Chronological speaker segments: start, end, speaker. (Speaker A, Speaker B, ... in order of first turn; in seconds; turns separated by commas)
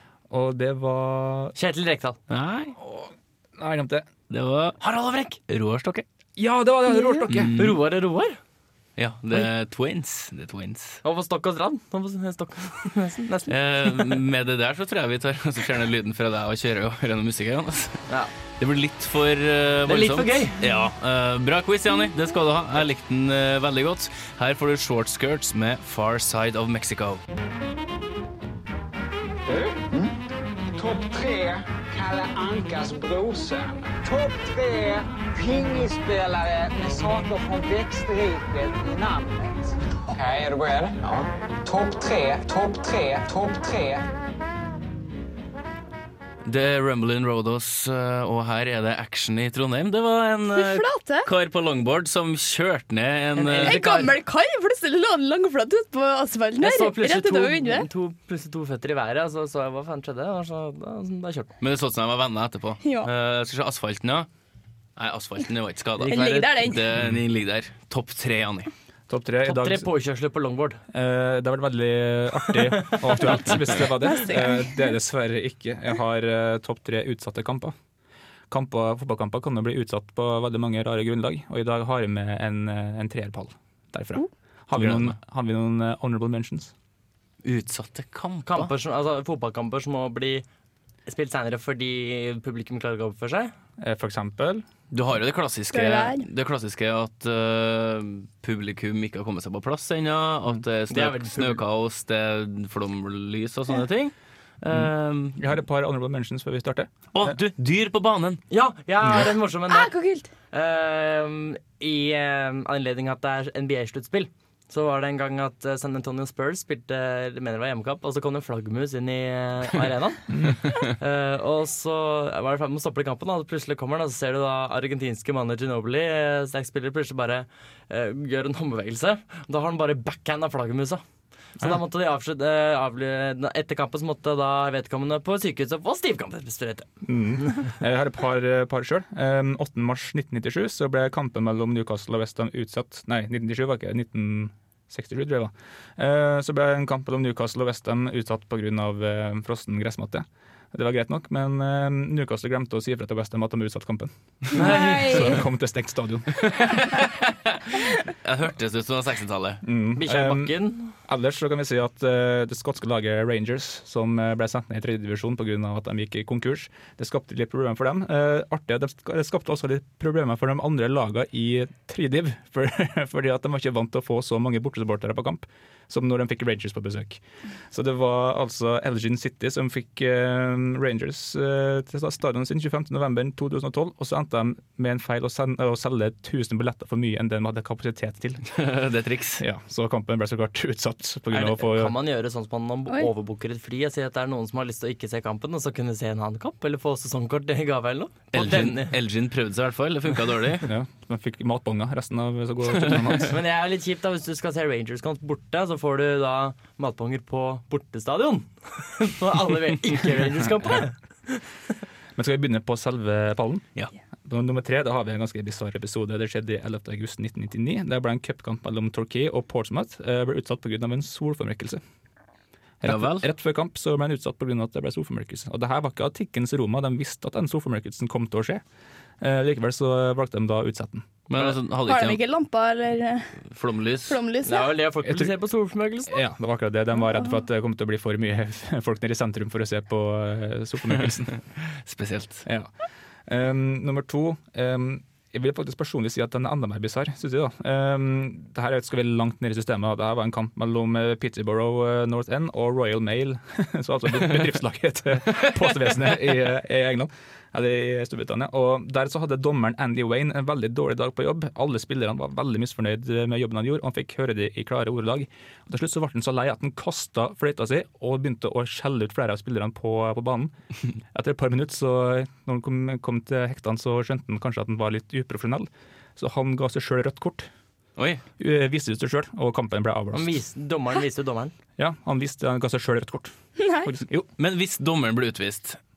Speaker A: 0.3-1.6, Speaker B: 1.6-2.2, Speaker C: 2.3-2.8, Speaker A: 2.8-4.1, Speaker C: 4.3-6.0, Speaker B: 4.8-5.3, Speaker A: 6.4-7.6, Speaker C: 7.3-7.8, Speaker B: 7.5-8.4, Speaker C: 9.0-11.0, Speaker B: 11.0-14.1, Speaker C: 13.5-18.0, Speaker C: 18.6-27.2, Speaker B: 19.9-20.6, Speaker D: 29.5-30.1, Speaker D: 30.7-44.1, Speaker C: 46.5-54.0, Speaker E: 50.5-51.3, Speaker B: 53.4-54.1, Speaker E: 53.6-57.9, Speaker B: 56.6-61.5, Speaker C: 61.6-64.3, Speaker E: 62.8-63.1, Speaker C: 65.0-68.7, Speaker E: 66.1-66.8, Speaker A: 69.1-69.9, Speaker B: 69.5-70.8, Speaker A: 70.9-77.8, Speaker B: 72.8-73.6, Speaker E: 73.9-74.9, Speaker A: 78.5-86.7, Speaker C: 84.7-85.2, Speaker C: 87.4-88.7, Speaker B: 88.5-90.5, Speaker B: 91.1-93.5, Speaker A: 93.8-94.6, Speaker C: 94.9-105.5, Speaker E: 95.7-96.2, Speaker B: 100.9-101.6, Speaker A: 104.7-107.4, Speaker C: 107.1-108.4, Speaker B: 108.5-109.9, Speaker E: 109.7-110.3, Speaker B: 110.5-131.0, Speaker A: 120.3-120.7, Speaker B: 131.6-136.9, Speaker A: 137.0-156.5, Speaker B: 154.5-155.4, Speaker E: 154.5-155.4, Speaker C: 156.4-159.6, Speaker A: 159.6-188.5, Speaker B: 160.0-160.9, Speaker C: 188.5-189.4, Speaker A: 189.4-192.0, Speaker B: 191.3-198.9, Speaker C: 198.3-200.7, Speaker A: 200.6-203.4, Speaker C: 202.9-203.2, Speaker B: 203.2-211.4, Speaker A: 212.2-213.7, Speaker A: 214.3-221.8, Speaker A: 222.8-228.6, Speaker C: 222.8-223.3, Speaker A: 229.2-231.4, Speaker C: 231.3-232.2, Speaker E: 231.9-233.3, Speaker C: 233.5-234.2, Speaker E: 234.1-234.8, Speaker B: 234.4-236.2, Speaker A: 235.1-235.3, Speaker A: 236.1-241.3, Speaker C: 241.7-242.5, Speaker A: 243.3-270.5, Speaker A: 271.1-277.5, Speaker C: 278.0-278.2, Speaker A: 278.4-280.4, Speaker B: 280.1-281.5, Speaker A: 281.8-284.3, Speaker E: 283.6-283.9, Speaker C: 284.4-285.8